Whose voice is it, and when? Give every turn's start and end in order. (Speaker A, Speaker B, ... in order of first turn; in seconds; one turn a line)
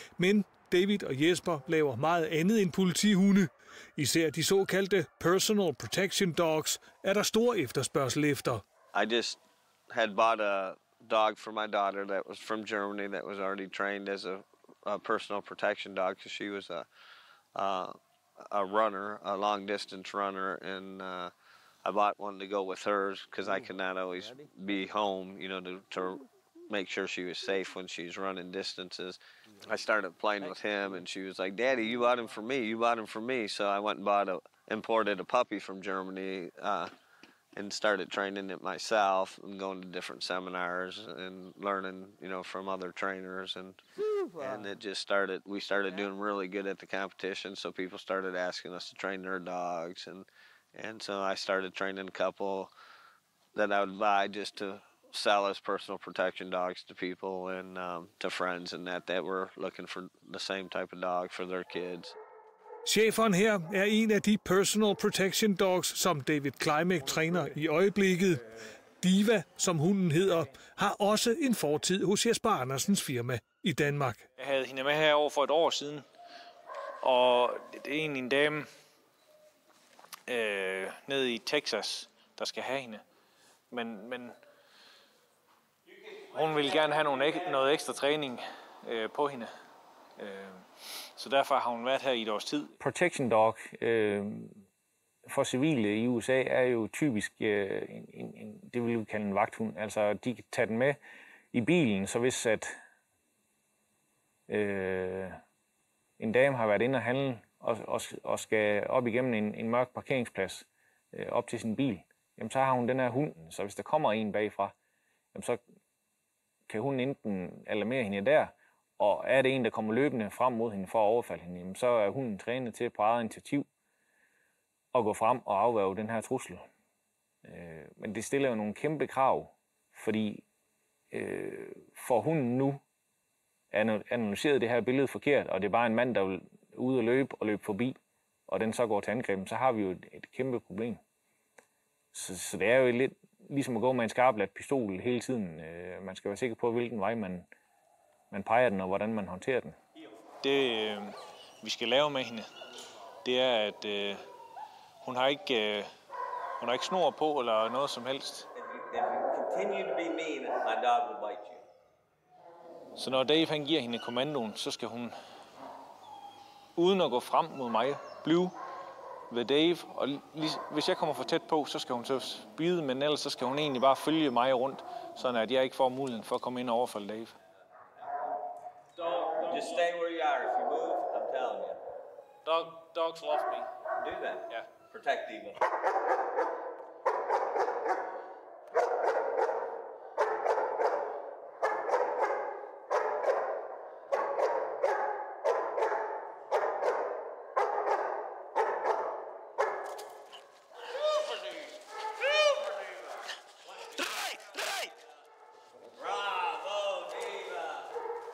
Speaker A: 0.2-8.6
Speaker B: 8.9-16.9
Speaker B: 17.6-21.3
Speaker B: 21.8-36.9
Speaker B: 37.5-43.8
Speaker B: 44.4-52.7
Speaker B: 53.5-62.1
Speaker A: 62.9-68.5
Speaker A: 69.0-74.2
Speaker C: 74.4-76.0
Speaker C: 77.0-78.7
Speaker C: 80.3-83.0
Speaker C: 83.7-84.4
Speaker C: 86.3-89.5
Speaker C: 90.2-92.8
Speaker D: 92.8-94.7
Speaker D: 95.2-101.0
Speaker D: 101.5-102.8
Speaker D: 104.5-105.4
Speaker D: 106.2-114.7
Speaker D: 115.3-115.6
Speaker D: 116.7-123.7
Speaker D: 124.9-126.7
Speaker D: 127.4-130.4
Speaker D: 131.1-132.8
Speaker D: 133.7-138.0
Speaker D: 138.5-141.0
Speaker D: 142.1-147.5
Speaker D: 148.3-149.8
Speaker C: 150.4-152.5
Speaker C: 153.2-154.2
Speaker C: 155.0-155.9
Speaker C: 156.6-158.5
Speaker B: 158.6-161.6
Speaker C: 163.0-165.1
Speaker C: 166.8-168.6
Speaker C: 169.3-177.4
Speaker C: 179.0-179.9
Speaker B: 179.4-181.8
Speaker C: 182.4-183.7
Speaker B: 184.0-185.6
Speaker C: 204.2-204.6
Speaker B: 206.0-207.8